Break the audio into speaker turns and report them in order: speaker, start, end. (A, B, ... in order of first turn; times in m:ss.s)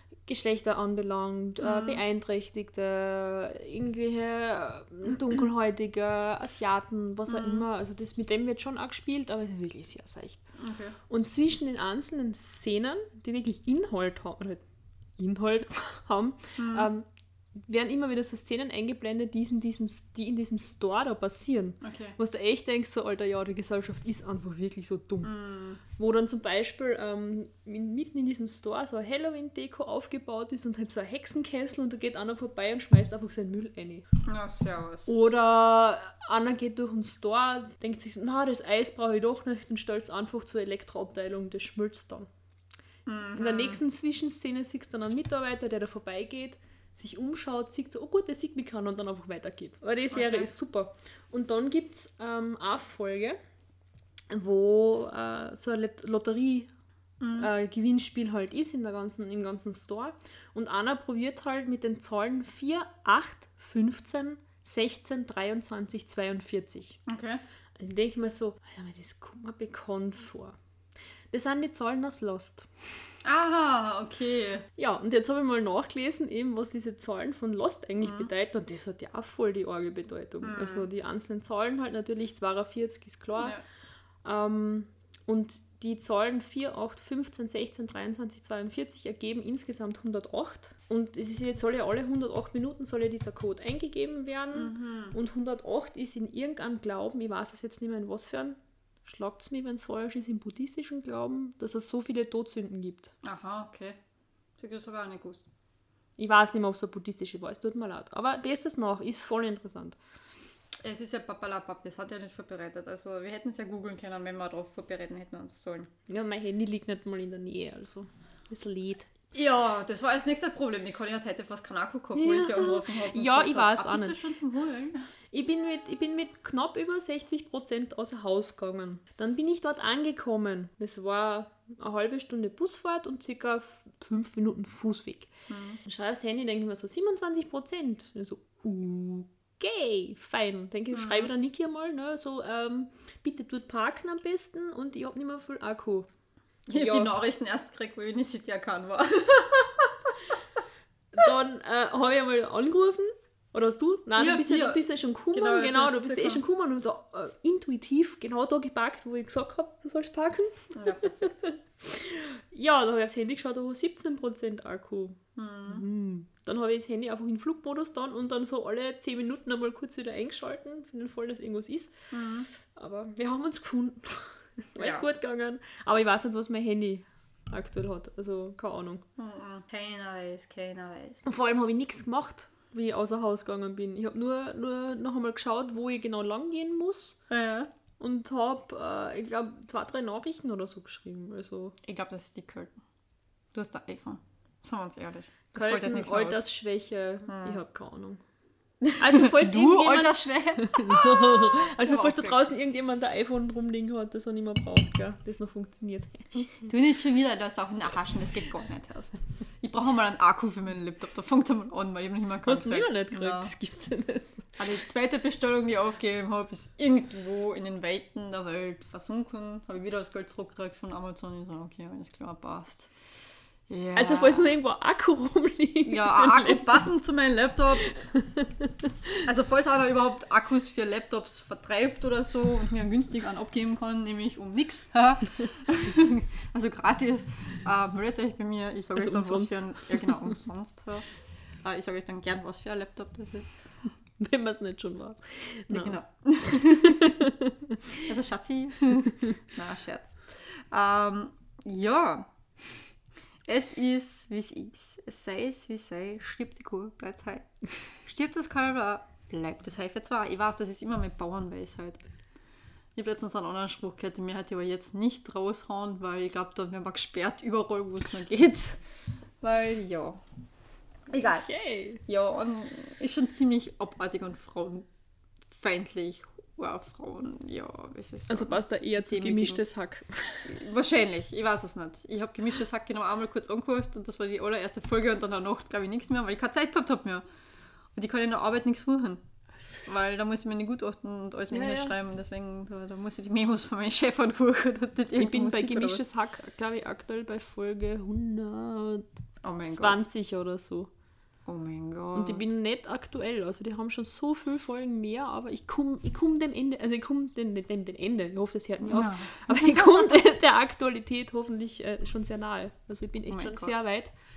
0:00.3-0:10.4 A
0:01.6-0:02.0 B
0:07.3-0:07.7 B
0:10.6-0:11.0 B
0:11.1-0:14.6 A
0:15.2-0:17.1 A
0:16.6-0:16.9 B
0:17.6-0:25.3 A
0:21.8-0:22.2 B
0:25.2-0:25.8 B
0:26.0-0:34.1 A
0:34.2-0:35.1 B
0:35.1-0:42.3 A
0:43.1-0:43.8 B
0:43.4-0:53.4 A
0:50.1-0:50.5 B
0:54.3-0:56.7 A
0:57.2-0:57.5 B
0:57.4-1:07.0 A
1:07.1-1:07.4 B
1:07.8-1:10.6 A
1:11.3-1:12.7 A
1:13.2-1:14.7 B
1:14.8-1:23.6 A
1:18.0-1:18.3 B
1:20.4-1:20.9 B
1:24.2-1:43.1 A
1:34.5-1:35.2 B
1:43.2-1:44.0 B
1:44.6-1:45.5 B
1:46.2-1:50.0 A
1:50.8-1:55.9 B
1:56.1-1:59.1 A
1:59.3-2:05.0 B
2:02.2-2:04.2 A
2:05.3-2:15.3 A
2:15.5-2:15.8 B
2:15.8-2:26.1 A
2:20.9-2:21.3 B
2:26.7-2:30.4 B
2:26.8-2:27.2 A
2:31.1-2:52.0 A
2:34.2-2:36.4 B
2:40.7-2:41.3 B
2:45.4-2:45.9 B
2:52.1-2:52.5 B
2:52.7-2:59.1 A
2:54.8-2:55.1 B
2:59.2-3:01.2 B
3:01.2-3:07.2 A
3:07.3-3:07.7 B
3:08.0-3:11.8 A
3:11.8-3:12.8 B
3:13.5-3:16.5 B
3:15.5-3:18.2 A
3:17.3-3:17.6 B
3:18.8-3:22.4 B
3:19.0-3:26.6 A
3:26.7-3:33.5 B
3:32.4-3:34.5 A
3:34.6-3:42.9 B
3:43.7-3:44.5 B
3:44.0-3:46.9 A
3:45.8-3:48.0 B
3:48.1-3:48.5 A
3:49.2-4:01.1 B
3:59.0-4:00.2 A
4:01.6-4:03.6 B
4:04.2-4:07.9 A
4:05.7-4:07.2 B
4:08.0-4:12.3 B
4:13.5-4:22.0 B
4:23.0-4:28.8 B
4:29.4-4:30.2 B
4:31.1-4:31.5 B
4:31.3-4:32.0 A
4:32.0-4:34.9 B
4:35.5-4:39.6 B
4:38.3-4:40.6 A
4:40.5-4:47.2 B
4:47.9-4:49.2 B
4:49.8-4:56.0 B
4:51.5-4:52.0 A
4:55.2-4:59.1 A
4:59.4-5:00.0 B
4:59.6-5:00.9 A
5:01.5-5:02.4 B
5:02.2-5:14.2 A
5:08.8-5:10.1 B
5:13.3-5:13.8 B